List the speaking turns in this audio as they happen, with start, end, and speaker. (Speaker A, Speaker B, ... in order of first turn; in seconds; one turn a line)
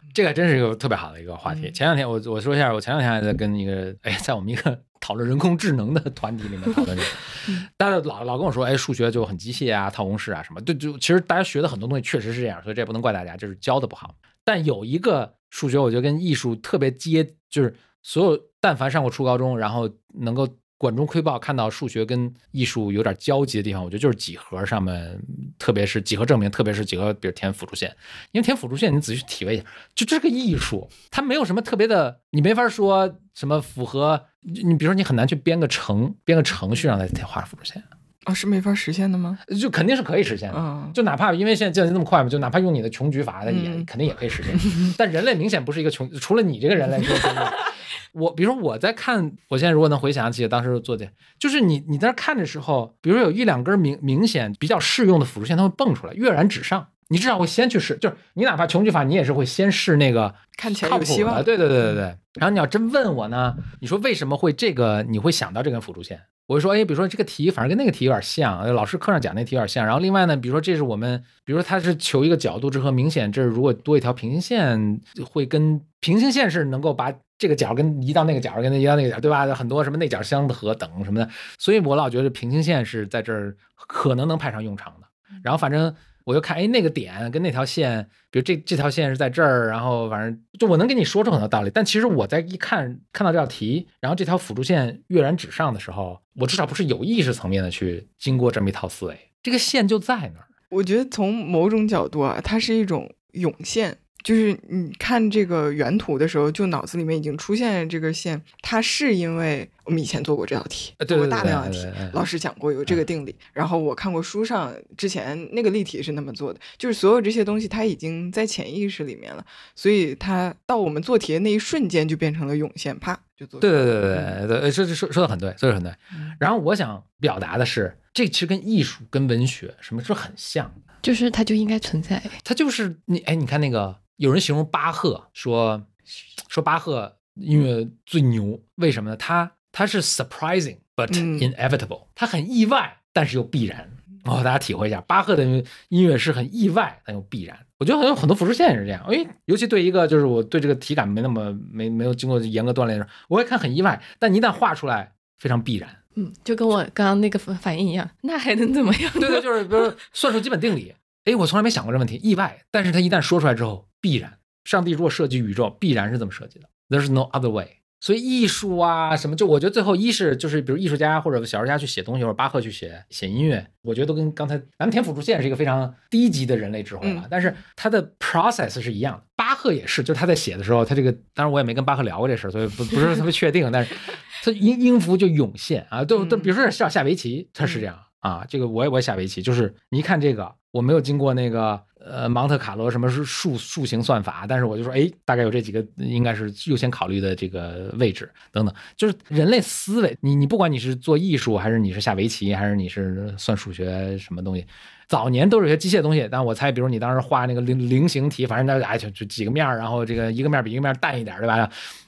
Speaker A: 0.1-37.8
Speaker B: 1.5-1.7
Speaker B: 38.2-39.4
Speaker A: 39.5-100.4
Speaker B: 40.5-41.0
Speaker B: 43.5-43.9
Speaker B: 44.5-44.9
Speaker B: 60.6-61.5
Speaker B: 100.7-124.4
Speaker A: 111.0-112.2
Speaker A: 123.6-130.7
Speaker C: 131.0-132.4
Speaker A: 132.4-135.9
Speaker A: 136.5-156.0
Speaker B: 141.1-141.5
Speaker C: 156.2-159.9
Speaker A: 159.2-211.7
Speaker B: 177.0-177.3
Speaker B: 186.1-186.5